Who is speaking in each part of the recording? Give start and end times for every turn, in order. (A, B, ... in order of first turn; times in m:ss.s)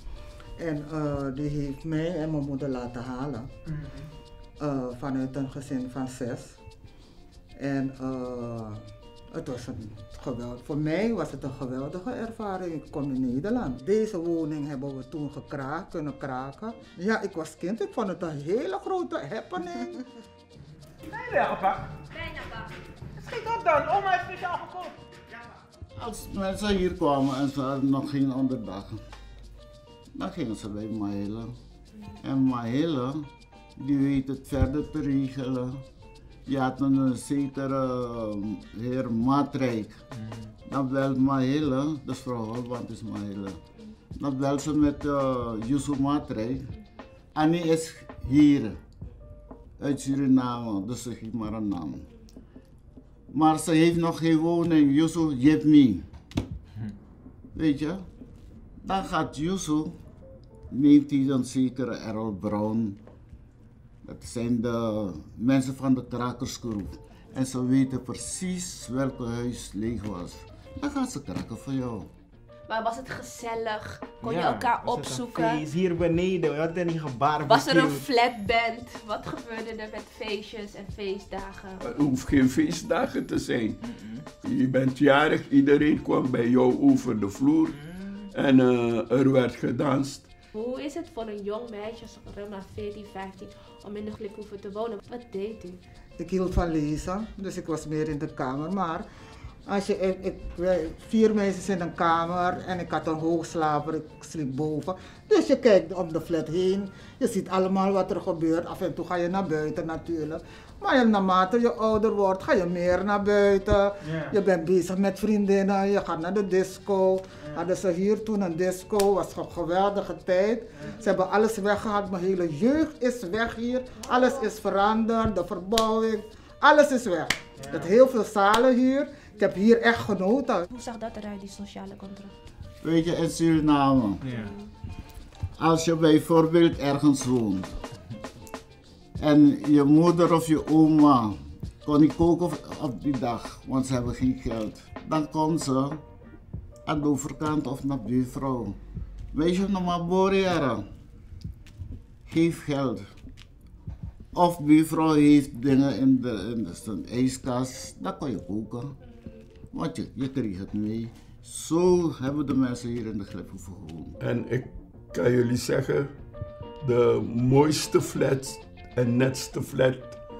0:00.6-0:03.5 A
0:04.6-0:06.6 A
0:07.6-0:20.0 A
0:21.1-0:21.9 B
0:22.1-0:22.7 C
0:23.2-0:24.9 B
0:26.0-0:29.0 D
0:30.1-0:31.6 D
0:32.2-0:35.8 D
0:36.5-0:40.0 D
0:40.6-0:43.6 D
0:44.1-0:46.7 D
0:47.3-0:48.8 D
0:49.8-0:52.1 D
0:53.3-0:56.1 D
0:57.5-0:58.1 D
0:58.8-1:00.0 D
1:00.7-1:03.0 D
1:04.0-1:12.1 D
1:12.7-1:15.7 C
1:14.2-1:18.0 B
1:17.4-1:21.8 C
1:21.8-1:23.8 E
1:23.9-1:24.2 B
1:24.4-1:30.3 E
1:30.5-1:35.8 C
1:36.2-1:39.0 A
1:39.6-2:10.7 A
1:54.0-1:54.3 B
2:04.0-2:04.5 C
2:07.6-2:07.9 B
2:10.7-2:12.3 C
2:12.8-2:14.3 D
2:14.2-2:14.5 B
2:14.3-2:14.7 C
2:15.6-2:17.8 D
2:19.2-2:26.0 D
2:26.8-2:28.8 D
2:29.3-2:30.8 D
2:32.2-2:33.1 D
2:34.3-2:39.0 D
2:39.7-2:44.2 D
2:44.2-2:46.1 E
2:46.8-2:50.2 E